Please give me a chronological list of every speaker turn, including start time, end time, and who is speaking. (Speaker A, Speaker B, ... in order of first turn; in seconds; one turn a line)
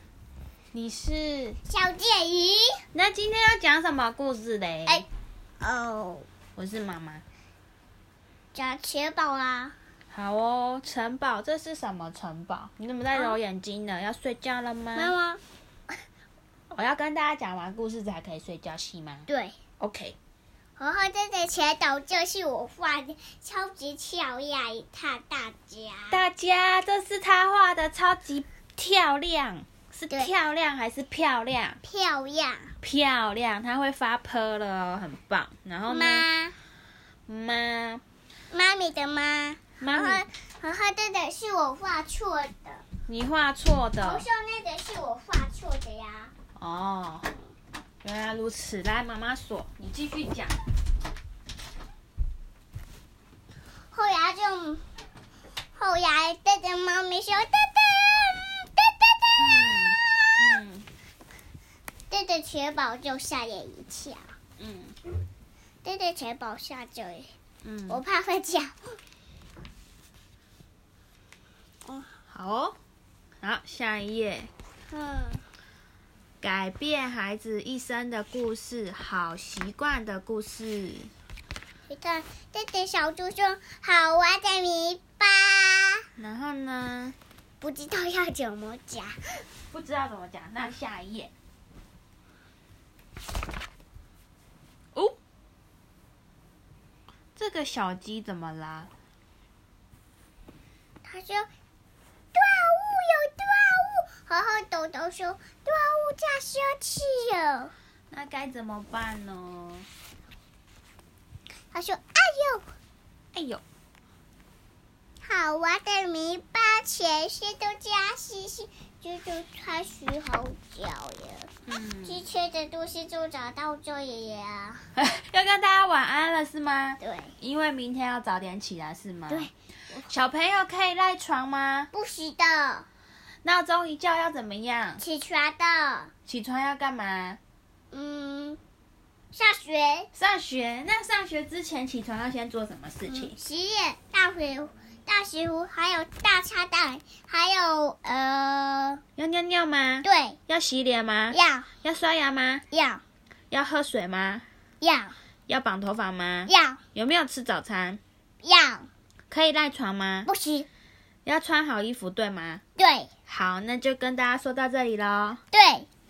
Speaker A: 0.7-1.6
Speaker B: 1.6-2.8
Speaker A: 2.9-5.0
Speaker B: 5.6-6.3
Speaker A: 6.5-7.2
Speaker B: 8.5-9.7
Speaker A: 10.1-15.1
Speaker B: 14.9-15.4
Speaker A: 16.7-19.3
Speaker B: 19.3-19.6
Speaker A: 19.8-20.1
Speaker B: 20.8-26.2
Speaker A: 26.1-31.8
Speaker B: 31.8-32.8
Speaker A: 32.8-36.2
Speaker B: 35.9-36.5
Speaker A: 37.3-38.0
Speaker B: 38.5-42.8
Speaker A: 39.8-40.2
Speaker A: 43.1-44.2
Speaker B: 44.0-46.3
Speaker A: 46.5-47.3
Speaker A: 48.0-50.6
Speaker B: 53.9-54.8
Speaker B: 55.8-60.4
Speaker A: 59.4-60.9
Speaker B: 62.1-64.3
Speaker A: 64.6-65.0
Speaker B: 65.8-67.3
Speaker A: 67.6-68.0
Speaker B: 67.9-69.0
Speaker A: 72.3-72.8
Speaker A: 73.4-74.5
Speaker B: 74.9-75.4
Speaker A: 76.4-81.1
Speaker B: 81.9-86.0
Speaker A: 86.2-87.2
Speaker B: 87.6-89.4
Speaker A: 89.7-91.3
Speaker A: 97.3-98.9
Speaker B: 101.0-101.5
Speaker B: 102.3-107.7
Speaker A: 108.1-109.9
Speaker B: 111.7-112.7
Speaker A: 113.3-113.6
Speaker B: 115.2-121.5
Speaker A: 121.7-122.2
Speaker B: 122.0-124.8
Speaker A: 125.0-129.5
Speaker B: 127.0-127.3
Speaker B: 129.3-130.1
Speaker A: 130.0-131.9
Speaker B: 131.9-132.8
Speaker A: 133.4-135.0
Speaker B: 135.0-136.1
Speaker A: 136.3-137.4
Speaker B: 137.9-138.6
Speaker B: 139.3-140.1
Speaker A: 140.1-143.3
Speaker B: 143.1-149.0
Speaker A: 149.2-152.6
Speaker B: 150.0-150.4
Speaker B: 151.3-151.7
Speaker B: 152.7-153.0
Speaker A: 153.5-154.4
Speaker B: 154.8-155.1
Speaker A: 155.5-158.0
Speaker B: 156.5-156.8
Speaker B: 158.4-158.9
Speaker A: 159.3-160.3
Speaker B: 160.2-160.7
Speaker A: 161.2-162.6
Speaker B: 162.8-163.1
Speaker A: 163.3-165.4
Speaker B: 165.5-165.9